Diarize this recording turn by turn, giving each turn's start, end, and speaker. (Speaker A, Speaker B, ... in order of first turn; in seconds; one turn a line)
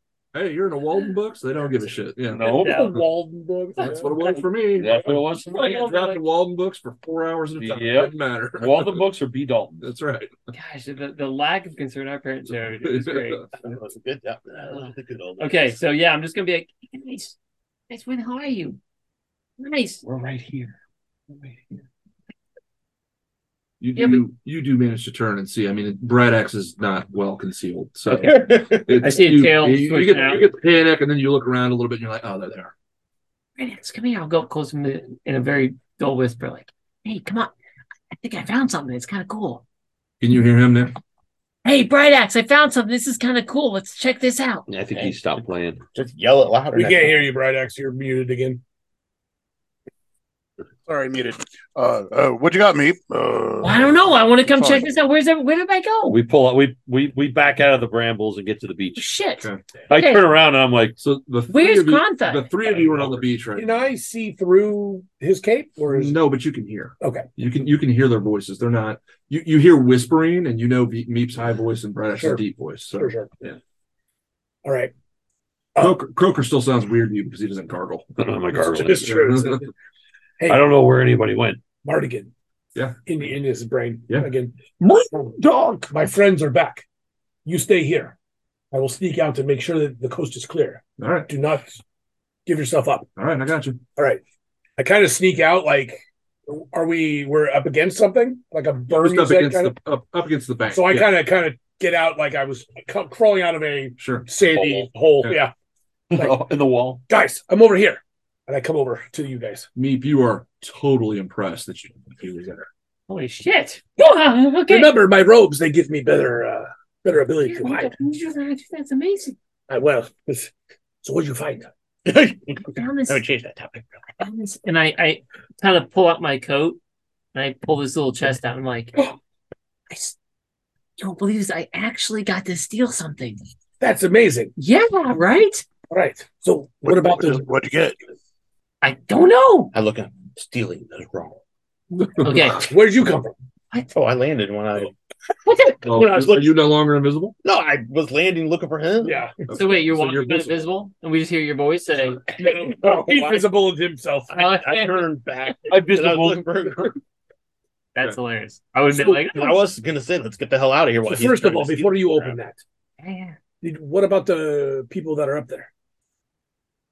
Speaker A: 0.3-3.0
Speaker B: 2.3-2.9
Speaker C: 2.4-4.3
Speaker D: 2.5-2.9
Speaker A: 3.8-9.0
Speaker B: 4.8-5.7
Speaker D: 5.4-6.2
Speaker B: 7.6-9.9
Speaker A: 9.8-10.3
Speaker D: 10.5-13.4
Speaker A: 12.4-13.5
Speaker E: 13.5-15.7
Speaker D: 15.4-17.4
Speaker D: 17.9-18.8
Speaker D: 19.6-20.0
Speaker B: 20.0-20.7
Speaker A: 23.8-32.7
Speaker D: 24.0-24.2
Speaker E: 28.1-29.0
Speaker D: 29.0-30.5
Speaker D: 33.6-37.5
Speaker D: 38.1-39.6
Speaker A: 40.2-40.9
Speaker D: 41.6-44.7
Speaker B: 44.7-45.8
Speaker E: 45.9-47.3
Speaker C: 46.7-48.6
Speaker F: 50.9-54.9
Speaker D: 53.6-56.2
Speaker B: 56.1-59.0
Speaker D: 59.0-60.2
Speaker B: 59.9-61.0
Speaker A: 61.0-63.8
Speaker D: 61.5-62.5
Speaker C: 63.5-66.2
Speaker A: 65.9-73.6
Speaker C: 67.0-67.3
Speaker C: 72.2-72.4
Speaker C: 72.9-73.3
Speaker C: 74.6-74.9
Speaker A: 75.8-78.1
Speaker B: 78.2-79.2
Speaker C: 78.5-79.7
Speaker A: 78.8-79.7
Speaker C: 80.4-80.7
Speaker B: 80.5-81.6
Speaker C: 81.8-82.3
Speaker C: 83.0-85.3
Speaker B: 85.4-85.9
Speaker C: 85.9-86.8
Speaker C: 87.4-88.1
Speaker C: 88.7-91.8
Speaker A: 91.0-91.3
Speaker C: 92.5-93.1
Speaker A: 93.2-93.8
Speaker C: 94.0-94.2
Speaker C: 94.8-99.7
Speaker A: 98.9-101.1
Speaker C: 100.7-105.5
Speaker A: 104.0-104.3
Speaker B: 104.5-104.9
Speaker B: 106.1-107.0
Speaker C: 107.1-109.7
Speaker A: 109.7-112.7
Speaker D: 113.1-114.9
Speaker C: 114.7-117.9
Speaker D: 117.5-119.4
Speaker C: 119.7-120.5
Speaker C: 121.0-121.7
Speaker E: 122.0-123.9
Speaker D: 122.7-123.2
Speaker D: 124.2-126.8
Speaker D: 127.3-129.1
Speaker D: 129.9-130.1
Speaker D: 131.0-133.4
Speaker C: 133.8-134.5
Speaker D: 134.6-135.6
Speaker C: 135.9-137.4
Speaker F: 136.8-138.0
Speaker D: 138.8-139.7
Speaker E: 139.7-141.4
Speaker A: 142.2-142.4
Speaker D: 142.2-142.7
Speaker C: 142.6-143.3
Speaker E: 143.9-144.9
Speaker D: 145.4-145.8
Speaker A: 145.8-147.3
Speaker E: 146.0-146.5
Speaker E: 147.4-149.3
Speaker C: 149.0-149.3
Speaker A: 149.5-150.6
Speaker D: 149.5-152.4
Speaker C: 152.4-154.3
Speaker E: 152.7-153.4
Speaker D: 154.3-155.1
Speaker E: 154.3-156.9
Speaker B: 155.7-156.9
Speaker D: 157.9-159.6
Speaker E: 158.9-162.4
Speaker C: 161.1-162.6
Speaker D: 163.0-163.3
Speaker C: 163.6-165.7